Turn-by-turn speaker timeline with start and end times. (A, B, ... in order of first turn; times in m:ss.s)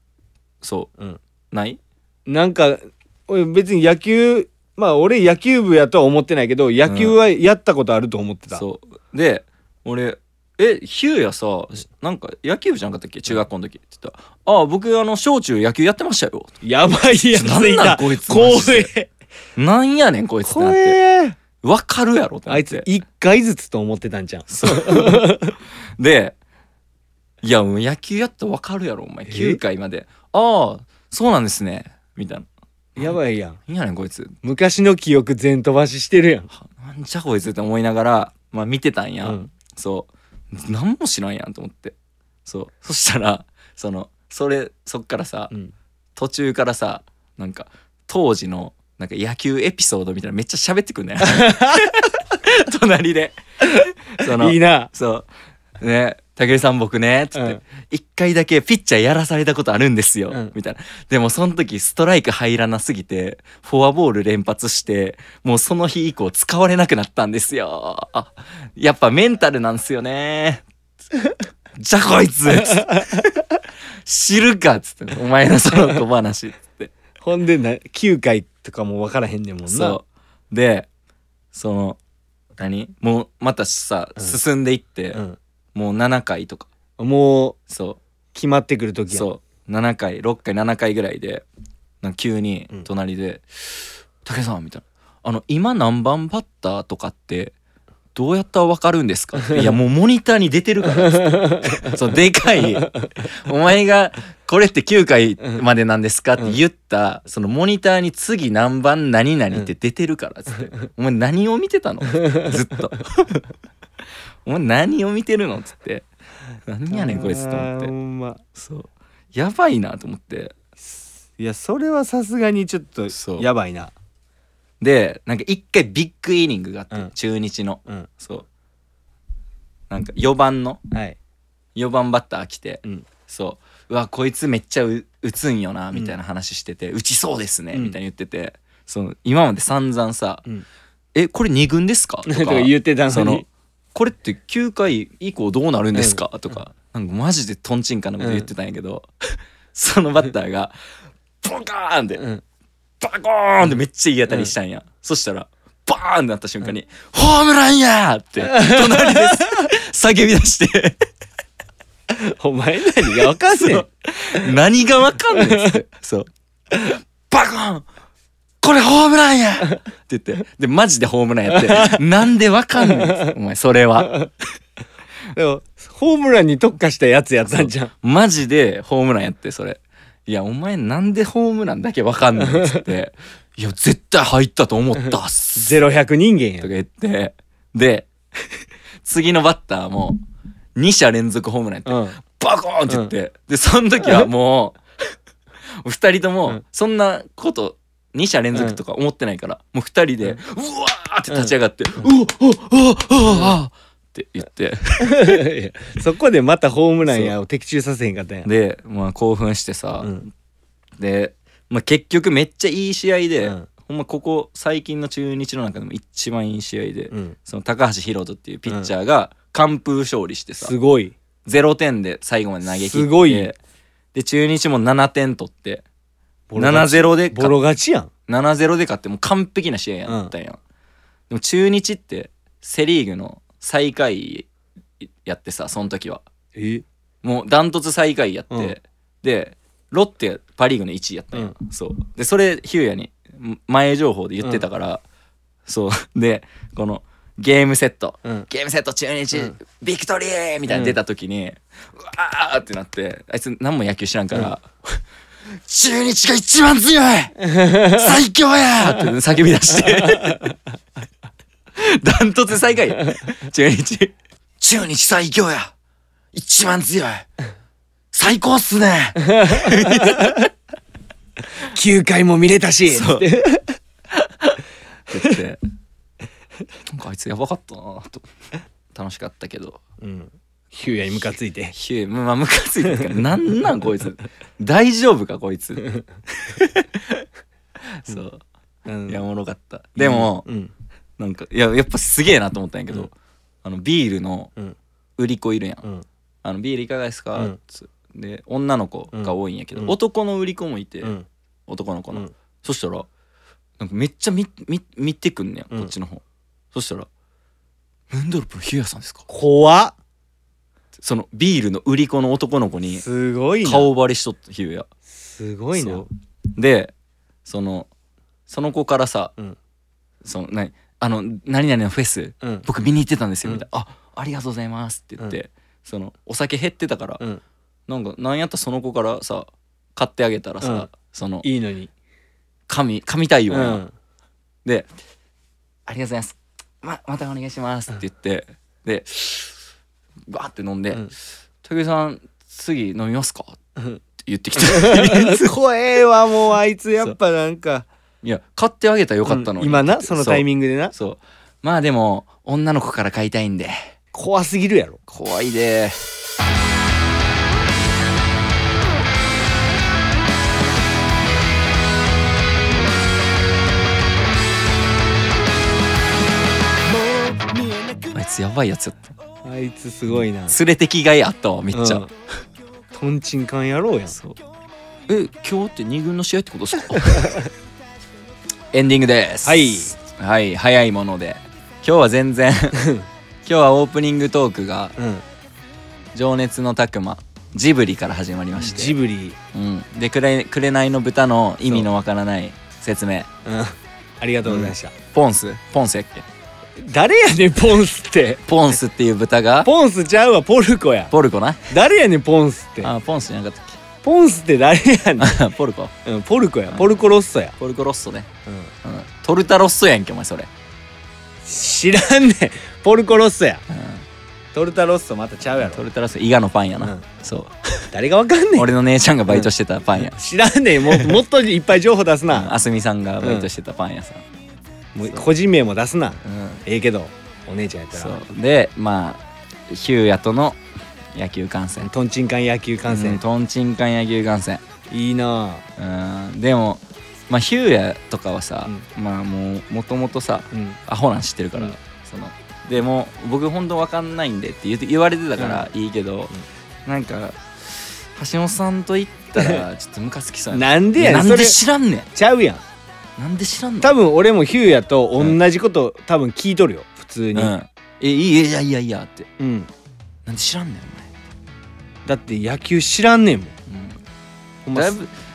0:00.6-0:00.9 A
0:01.5-0:01.8 A
0:02.3-0:08.6 B
0:06.8-0:07.2 A
0:08.5-0:16.6 A
0:16.6-0:19.1 B
0:17.3-0:18.9 A
0:19.6-0:21.0 A
0:20.4-0:21.4 B
0:21.6-0:22.9 A
0:22.5-0:25.6 B
0:24.5-0:25.4 A
0:26.0-0:26.4 A
0:27.4-0:34.4 A
0:29.3-0:29.6 B
0:33.0-0:33.6 B
0:34.4-0:36.5 B
0:36.5-0:45.5 A
0:46.2-0:55.3 A
0:51.2-0:52.0 B
0:54.2-0:54.9 B
0:55.8-1:10.6 A
1:11.8-1:13.4 A
1:12.6-1:13.2 B
1:14.1-1:16.9 A
1:17.2-1:20.0 B
1:19.7-1:20.9 A
1:21.5-1:22.0 A
1:22.6-1:25.2 A
1:25.1-1:25.4 B
1:25.7-1:26.7 A
1:27.0-1:27.6 B
1:27.7-1:28.0 A
1:28.3-1:29.3 B
1:29.1-1:31.4 A
1:32.0-1:37.5 A
1:38.2-1:53.5 A
1:41.0-1:42.0 B
1:42.8-1:43.1 B
1:54.4-1:56.1 A
1:56.7-1:57.9 A
1:56.9-1:58.4 B
1:58.6-2:00.6 A
2:00.8-2:03.9 B
2:03.1-2:03.5 A
2:04.8-2:08.5 A
2:09.9-2:10.8 A
2:10.9-2:11.2 B
2:11.8-2:20.4 A
2:21.2-2:30.7 A
2:22.3-2:23.5 B
2:26.0-2:26.2 B
2:28.2-2:28.5 B
2:31.4-2:32.3 A
2:33.0-2:41.0 A
2:34.3-2:34.5 B
2:38.4-2:39.7 B
2:42.1-2:44.5 B
2:43.2-2:47.9 A
2:45.3-2:45.8 B
2:48.6-2:54.2 A
2:51.5-2:52.0 B
2:52.8-2:53.3 B
2:55.4-2:57.9 B
2:57.5-3:05.8 A
3:02.4-3:02.9 B
3:05.0-3:06.7 B
3:06.6-3:08.1 A
3:09.0-3:10.2 A
3:10.8-3:14.8 A
3:11.9-3:12.2 B
3:15.8-3:25.4 A
3:21.3-3:22.0 B
3:23.3-3:23.5 B
3:25.0-3:28.5 B
3:27.1-3:27.3 A
3:28.4-3:30.3 A
3:31.0-3:40.7 A
3:33.4-3:33.7 B
3:37.1-3:37.4 B
3:40.6-3:41.2 B
3:41.4-3:43.6 A
3:42.6-3:43.5 B
3:44.1-3:45.8 A
3:46.5-3:48.1 B
3:46.6-3:47.6 A
3:48.3-3:50.6 A
3:50.1-3:50.3 B
3:51.3-3:54.5 A
3:55.0-3:56.2 A
3:56.6-3:56.8 B
3:57.2-4:05.0 A
4:05.7-4:20.6 A
4:10.7-4:11.0 B
4:17.4-4:18.2 B
4:18.8-4:19.1 B
4:19.9-4:20.5 B
4:21.8-4:25.7 A
4:26.3-4:27.3 A
4:28.1-4:30.5 A
4:29.2-4:30.4 B
4:31.6-4:33.8 B
4:32.9-4:33.3 A
4:34.2-4:34.5 A
4:35.1-4:35.6 A
4:36.9-4:38.3 A
4:38.9-4:39.8 A
4:40.0-4:41.7 B
4:41.7-4:47.3 A
4:42.9-4:43.2 B
4:47.8-4:48.4 A
4:48.9-4:49.2 B
4:49.1-4:50.5 A
4:50.0-4:50.7 B
4:51.2-4:53.1 A
4:53.6-4:54.5 A
4:55.2-4:55.9 A
4:56.4-5:01.2 A
4:59.1-5:00.0 B
5:01.7-5:03.1 A
5:03.8-5:07.1 A
5:08.1-5:09.3 A
5:09.3-5:10.0 B
5:11.0-5:13.0 A
5:12.9-5:13.9 B
5:13.6-5:14.9 A
5:15.1-5:16.1 B
5:15.8-5:16.9 A
5:17.5-5:17.9 A
5:18.5-5:19.3 A
5:20.2-5:27.2 A
5:22.4-5:22.7 B
5:27.9-5:31.5 A
5:30.6-5:30.9 B
5:31.4-5:31.9 B
5:32.7-5:33.8 A
5:33.5-5:33.9 B
5:35.9-5:39.6 A
5:40.3-5:43.6 A
5:44.2-5:45.5 A
5:44.6-5:47.9 B
5:48.2-5:53.9 A
5:49.3-5:50.9 B
5:54.1-5:55.0 B
5:55.1-5:56.0 A
6:07.2-6:08.0 B
6:08.1-6:09.1 A
6:09.4-6:10.6 B
6:10.5-6:12.1 A
6:11.7-6:12.1 B
6:12.9-6:14.2 B
6:14.1-6:14.4 A
6:15.1-6:17.5 A
6:17.2-6:17.5 B
6:18.7-6:22.9 A
6:19.4-6:19.9 B
6:22.8-6:23.1 B
6:23.5-6:25.0 A
6:25.0-6:25.2 B
6:26.1-6:29.0 A
6:28.6-6:29.4 B
6:29.5-6:33.3 A
6:33.4-6:34.9 B
6:34.4-6:36.3 A
6:36.8-6:38.4 B
6:38.5-6:39.7 A
6:39.6-6:41.1 B
6:41.1-6:41.7 A
6:41.7-6:42.9 B
6:42.8-6:43.8 A
6:44.0-6:45.4 B
6:45.2-6:46.0 A
6:46.0-6:47.6 B
6:47.6-6:48.3 A
6:48.5-6:48.7 B
6:48.8-6:50.5 A
6:51.4-6:53.6 B
6:53.7-6:54.0 A
6:54.5-6:55.8 B
6:55.5-6:57.9 A
6:56.8-6:57.1 B
6:57.9-6:58.7 B
6:58.6-7:00.2 A
6:59.3-7:02.5 B
7:00.8-7:01.1 A
7:02.3-7:04.2 A
7:03.2-7:03.5 B
7:04.9-7:08.3 B
7:06.2-7:06.6 A
7:07.9-7:10.6 A
7:11.1-7:11.9 A
7:11.8-7:13.2 B
7:12.9-7:14.6 A
7:14.9-7:15.6 B
7:15.8-7:26.3 A
7:20.5-7:20.8 B
7:25.4-7:25.7 B
7:26.9-7:32.1 A
7:29.4-7:29.6 B
7:30.5-7:31.6 B
7:32.2-7:32.6 B
7:33.2-7:33.9 A
7:33.8-7:37.5 B
7:37.3-7:39.3 A
7:39.4-7:39.7 B
7:40.3-7:41.1 A
7:42.0-7:43.5 B
7:43.7-7:44.0 A
7:44.6-7:45.0 B
7:44.7-7:45.1 A